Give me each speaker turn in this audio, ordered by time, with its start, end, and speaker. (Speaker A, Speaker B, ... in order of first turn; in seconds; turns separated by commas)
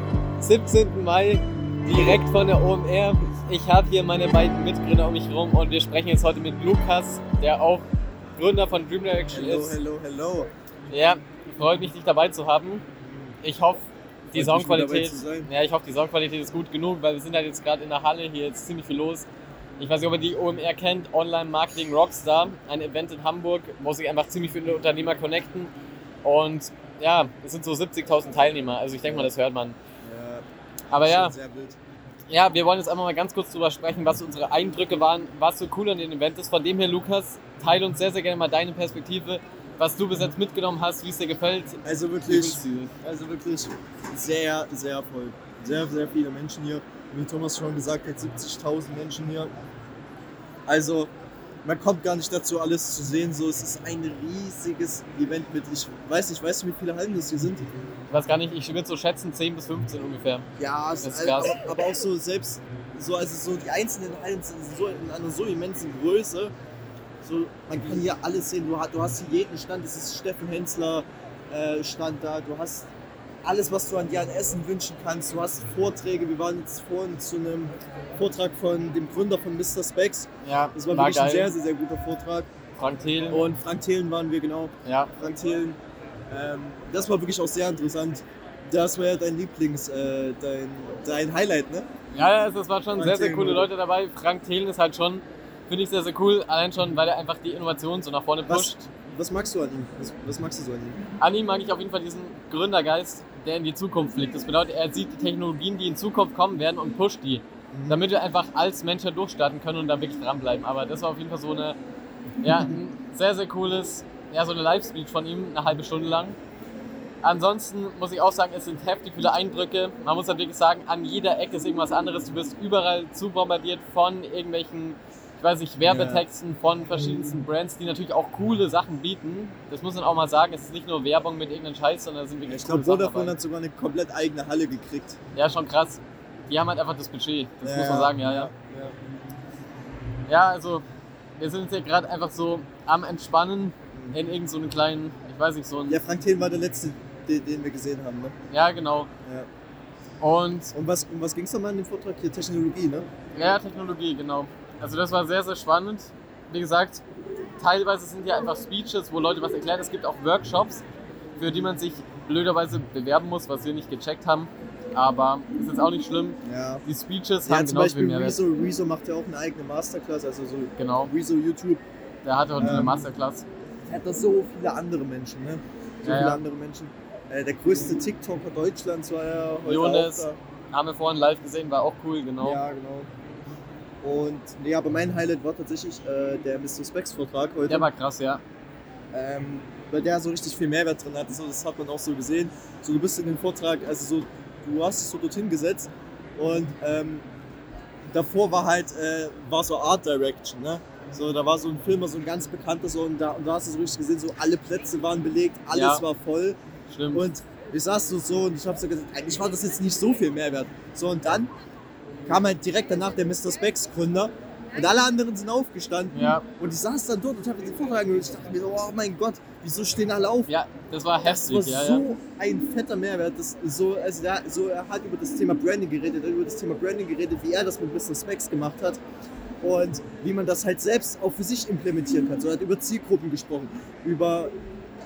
Speaker A: 0.4-7.9, Speaker A: 8.4-9.8, Speaker B: 9.3-10.5, Speaker A: 10.9-12.8, Speaker B: 13.0-13.4, Speaker A: 13.4-19.3, Speaker B: 14.3-15.5, Speaker A: 19.8-25.7, Speaker A: 26.2-29.8, Speaker B: 29.0-29.3, Speaker B: 30.0-31.8, Speaker A: 30.9-31.3, Speaker A: 32.3-42.9, Speaker B: 41.9-49.5, Speaker B: 50.7-51.1, Speaker B: 51.6-57.6, Speaker A: 58.1-60.5, Speaker B: 60.6-66.5, Speaker A: 61.0-61.6, Speaker B: 67.2-72.9, Speaker B: 73.4-82.5, Speaker A: 80.5-81.5, Speaker A: 82.8-83.5, Speaker B: 83.3-85.8, Speaker A: 84.8-85.1, Speaker B: 86.3-91.9, Speaker A: 92.1-98.7, Speaker B: 92.9-93.7, Speaker B: 98.5-101.0, Speaker A: 101.2-111.8, Speaker B: 107.7-108.0, Speaker A: 112.4-116.4, Speaker A: 117.2-133.3, Speaker B: 125.8-126.3, Speaker B: 132.4-135.2, Speaker A: 135.3-138.5, Speaker B: 137.6-139.0, Speaker A: 140.3-140.8, Speaker A: 141.4-146.0, Speaker B: 143.9-144.2, Speaker B: 145.9-148.3, Speaker A: 148.5-149.1, Speaker A: 150.2-150.7, Speaker B: 150.7-153.1, Speaker A: 153.3-157.0, Speaker A: 157.6-160.8, Speaker A: 161.4-168.4, Speaker B: 166.4-166.8, Speaker B: 167.4-171.8, Speaker A: 170.8-171.1, Speaker A: 172.2-173.5, Speaker B: 172.6-173.1, Speaker B: 173.9-180.4, Speaker A: 176.0-176.4, Speaker A: 179.7-182.6, Speaker B: 182.4-183.1, Speaker B: 184.0-187.9, Speaker A: 187.7-188.4, Speaker B: 189.1-197.2, Speaker B: 198.1-206.6, Speaker A: 205.7-206.1, Speaker A: 206.9-207.3, Speaker B: 207.1-211.5, Speaker B: 212.3-220.5, Speaker A: 216.1-216.5, Speaker A: 220.5-222.1, Speaker B: 221.2-229.0, Speaker B: 229.6-234.5